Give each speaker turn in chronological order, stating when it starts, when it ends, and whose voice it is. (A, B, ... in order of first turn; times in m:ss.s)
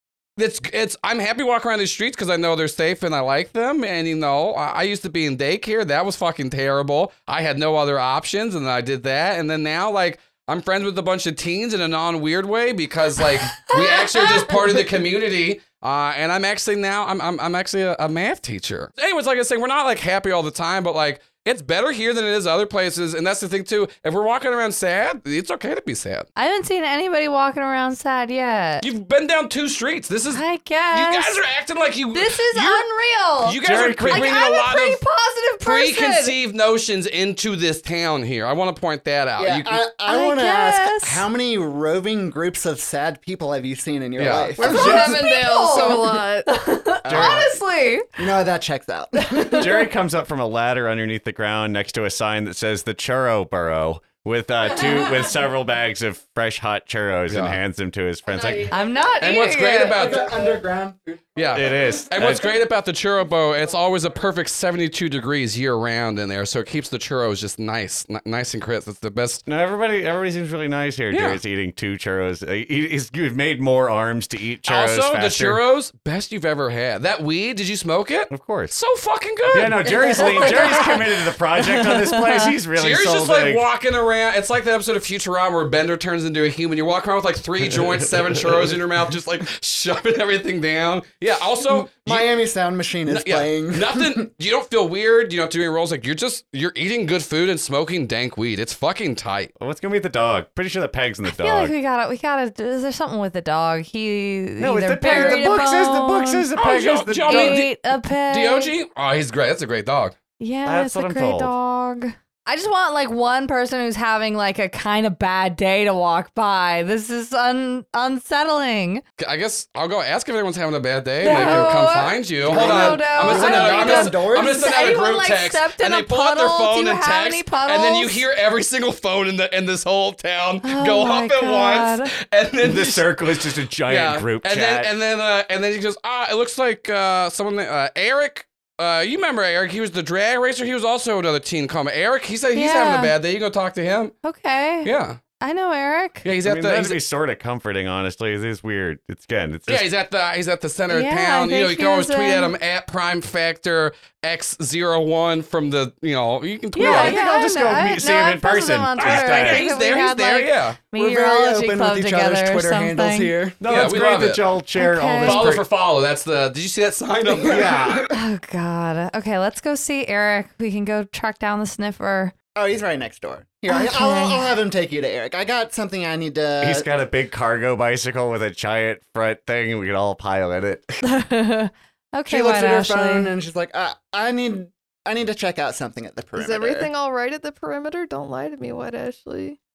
0:00.4-0:26.3 A
0:13.4-0:14.7 B
0:26.4-0:28.9 B
0:28.8-0:32.9 A
0:30.3-0:31.4 B
0:32.1-0:36.4 B
0:33.4-0:35.0 A
0:33.6-0:34.3 C
0:35.6-0:39.8 A
0:39.4-0:45.0 D
0:40.1-0:41.2 B
0:44.2-0:44.6 A
0:44.6-0:48.2 B
0:44.6-0:46.5 E
0:44.6-0:45.2 C
0:47.0-0:47.6 D
0:47.0-0:47.4 C
0:48.2-0:49.8 D
0:49.3-0:49.7 B
0:49.5-0:58.7 C
0:54.8-0:55.2 B
0:57.3-0:57.6 A
0:58.3-0:59.3 E
0:58.7-1:00.2 B
0:59.2-1:00.3 A
0:59.6-1:02.0 D
1:01.4-1:09.4 A
1:01.5-1:02.6 C
1:09.4-1:15.6 C
1:11.1-1:11.4 A
1:14.6-1:20.9 A
1:18.3-1:18.7 C
1:19.5-1:23.6 C
1:19.9-1:21.0 B
1:21.6-1:22.5 B
1:22.8-1:32.3 A
1:31.6-1:34.2 D
1:33.1-1:39.5 A
1:39.6-1:41.7 C
1:41.2-1:46.5 B
1:44.6-1:47.6 C
1:45.1-1:45.5 A
1:46.6-1:50.1 A
1:47.2-1:48.7 B
1:50.4-1:59.0 B
1:50.6-1:51.5 C
1:59.2-2:24.1 A
2:01.2-2:08.2 B
2:01.2-2:01.7 D
2:02.4-2:05.0 D
2:10.6-2:12.1 B
2:12.6-2:14.9 C
2:22.5-2:23.1 B
2:24.2-2:26.2 B
2:24.8-2:25.2 A
2:26.2-2:27.0 A
2:26.4-2:29.9 C
2:29.7-2:37.2 A
2:30.9-2:32.5 B
2:36.8-2:43.3 B
2:36.8-2:39.7 C
2:39.0-2:40.8 A
2:40.9-2:43.6 D
2:43.6-2:45.6 C
2:43.6-2:44.4 A
2:44.7-2:45.5 B
2:45.2-2:48.1 A
2:47.4-2:47.7 D
2:47.4-2:48.1 C
2:48.1-2:52.3 B
2:52.5-2:56.9 D
2:53.7-2:54.5 B
2:56.6-3:01.0 C
3:01.0-3:03.3 B
3:02.3-3:06.9 D
3:06.3-3:09.6 E